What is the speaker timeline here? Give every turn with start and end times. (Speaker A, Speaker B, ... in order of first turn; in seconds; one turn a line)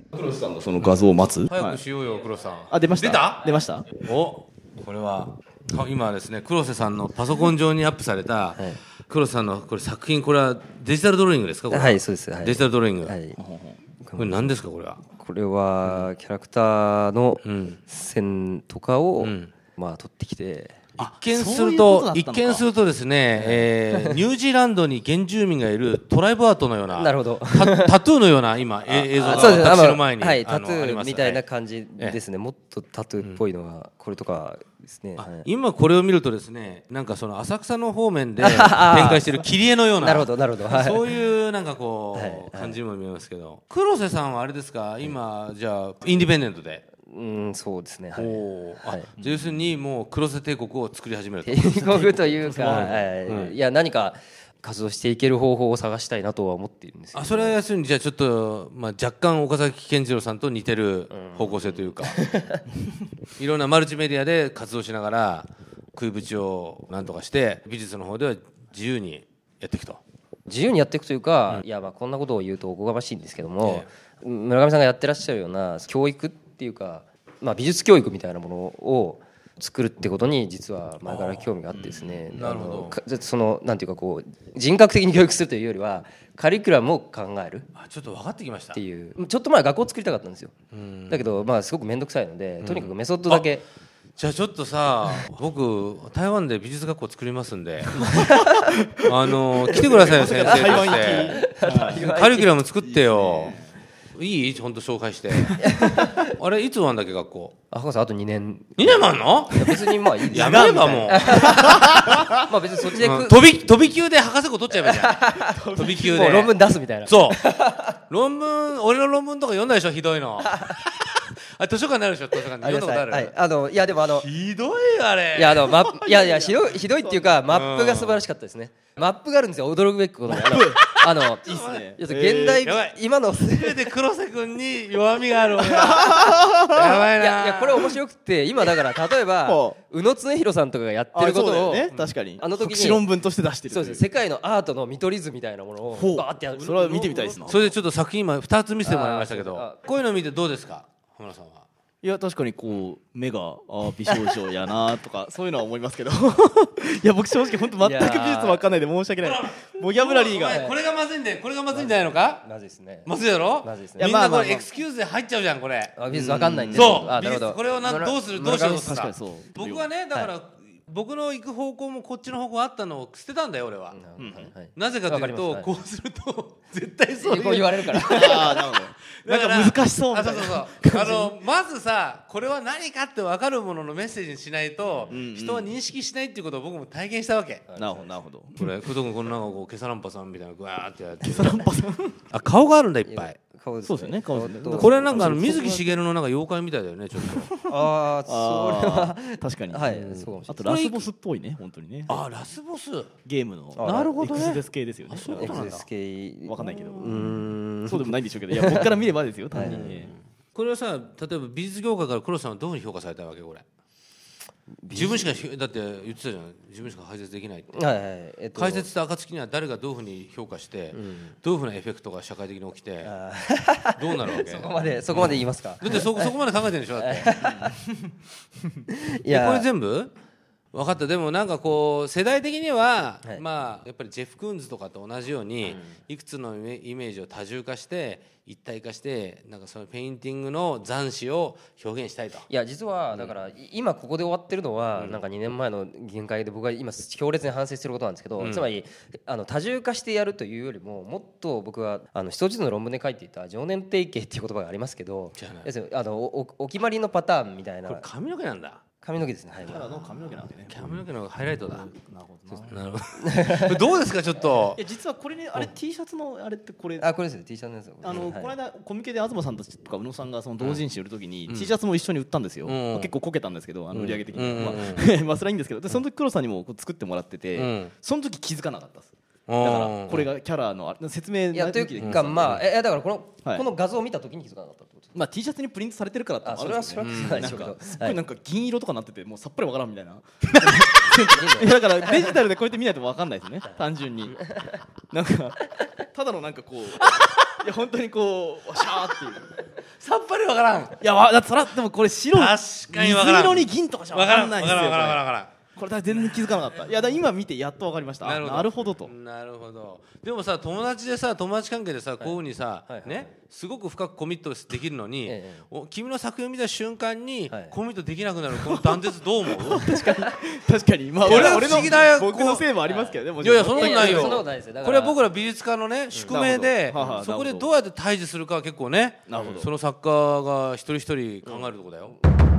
Speaker A: 0.1-1.8
Speaker B: 1.5-13.2
Speaker A: 2.7-3.9
Speaker C: 11.7-13.4
Speaker A: 13.3-13.8
Speaker C: 14.0-14.6
Speaker B: 14.2-15.0
Speaker C: 15.1-20.8
Speaker B: 15.8-16.1
Speaker B: 17.4-17.8
Speaker B: 19.2-19.5
Speaker B: 21.0-31.4
Speaker A: 21.0-22.7
Speaker C: 23.4-24.2
Speaker C: 26.9-27.9
Speaker C: 28.9-35.5
Speaker B: 35.2-46.8
Speaker C: 38.4-39.3
Speaker C: 40.0-41.1
Speaker C: 42.1-42.8
Speaker C: 47.0-49.1
Speaker B: 48.2-51.7
Speaker A: 49.2-49.5
Speaker C: 51.5-57.6
Speaker A: 51.7-53.1
Speaker B: 52.6-53.5
Speaker B: 57.1-62.2
Speaker C: 61.1-62.6
Speaker B: 63.4-70.0
Speaker C: 70.5-87.7
Speaker B: 81.0-83.0
Speaker B: 87.8-88.8
Speaker C: 88.7-90.5
Speaker B: 90.7-91.4
Speaker C: 91.1-93.6
Speaker B: 92.6-93.5
Speaker B: 94.2-98.1
Speaker A: 98.0-102.0
Speaker C: 98.1-98.6
Speaker B: 99.0-103.6
Speaker C: 100.4-102.5
Speaker A: 102.8-103.8
Speaker B: 104.1-107.5
Speaker C: 105.6-106.3
Speaker C: 107.7-113.4
Speaker B: 108.8-116.5
Speaker A: 110.3-112.1
Speaker C: 114.7-118.0
Speaker A: 115.4-116.3
Speaker B: 117.0-117.4
Speaker B: 118.0-123.3
Speaker C: 120.4-120.8
Speaker C: 122.5-124.3
Speaker B: 124.1-125.9
Speaker C: 125.3-133.9
Speaker A: 125.8-127.4
Speaker B: 127.5-128.2
Speaker A: 130.3-132.6
Speaker B: 130.8-131.9
Speaker B: 132.6-137.9
Speaker A: 135.6-137.1
Speaker C: 135.7-136.4
Speaker C: 137.2-143.1
Speaker A: 139.4-139.8
Speaker A: 141.1-144.1
Speaker B: 141.9-142.1
Speaker C: 143.7-147.6
Speaker A: 145.9-147.7
Speaker B: 146.6-151.7
Speaker C: 148.8-149.8
Speaker A: 152.0-160.7
Speaker C: 157.8-158.6
Speaker B: 159.2-162.4
Speaker C: 160.5-160.8
Speaker C: 161.7-163.1
Speaker B: 163.1-166.0
Speaker C: 163.6-164.1
Speaker A: 164.0-164.7
Speaker C: 166.0-168.8
Speaker A: 166.1-167.1
Speaker B: 166.7-174.0
Speaker A: 168.4-169.9
Speaker C: 173.9-175.7
Speaker A: 174.2-174.5
Speaker B: 174.7-187.7
Speaker C: 177.2-178.7
Speaker A: 178.1-181.4
Speaker C: 184.8-185.1
Speaker A: 185.1-185.7
Speaker C: 187.7-188.2
Speaker A: 187.8-188.5
Speaker B: 188.6-191.7
Speaker A: 191.2-192.2
Speaker B: 192.3-193.4
Speaker C: 193.1-195.8
Speaker A: 193.8-195.9
Speaker B: 194.8-197.5
Speaker A: 197.2-199.9
Speaker C: 197.7-200.7
Speaker B: 199.9-201.1
Speaker A: 200.5-202.1
Speaker B: 202.1-203.1
Speaker A: 203.3-205.7
Speaker C: 203.8-204.2
Speaker B: 203.8-205.8
Speaker C: 205.3-208.9
Speaker A: 206.4-207.3
Speaker B: 207.0-207.4
Speaker A: 207.9-210.1
Speaker C: 209.5-209.9
Speaker B: 209.6-213.6
Speaker C: 214.8-215.4
Speaker B: 214.9-217.9
Speaker C: 217.7-218.9
Speaker B: 218.5-223.2
Speaker C: 220.9-221.3
Speaker C: 223.0-226.3
Speaker B: 223.9-227.5
Speaker C: 227.0-227.8
Speaker A: 227.4-227.9
Speaker C: 229.2-229.7
Speaker B: 229.3-230.1
Speaker B: 230.7-242.5
Speaker C: 235.7-236.0
Speaker C: 242.5-258.1
Speaker B: 244.9-245.2
Speaker B: 248.4-248.7
Speaker B: 255.4-255.7
Speaker B: 257.9-258.8
Speaker C: 259.0-259.9
Speaker A: 259.6-260.7
Speaker B: 260.7-261.9
Speaker A: 261.9-262.8
Speaker B: 262.7-264.8
Speaker C: 263.2-263.8
Speaker A: 264.8-267.1
Speaker C: 267.0-268.5
Speaker A: 268.0-282.6
Speaker B: 272.6-273.1
Speaker B: 273.9-275.1
Speaker B: 277.6-277.9
Speaker B: 279.5-280.3
Speaker C: 281.5-285.1
Speaker B: 282.0-282.6
Speaker A: 285.1-294.5
Speaker C: 286.4-288.2
Speaker B: 287.0-287.6
Speaker C: 291.1-292.4
Speaker C: 294.4-294.8
Speaker A: 295.1-299.6
Speaker B: 300.0-301.0
Speaker A: 301.0-309.1
Speaker B: 302.3-305.6
Speaker B: 306.4-306.8
Speaker B: 308.2-319.9
Speaker C: 312.2-313.3
Speaker C: 315.3-315.6
Speaker A: 318.6-319.0
Speaker A: 319.6-324.4
Speaker B: 321.2-322.7
Speaker C: 321.2-322.0
Speaker C: 322.9-325.3
Speaker B: 323.4-332.2
Speaker A: 326.3-327.7
Speaker A: 329.3-329.7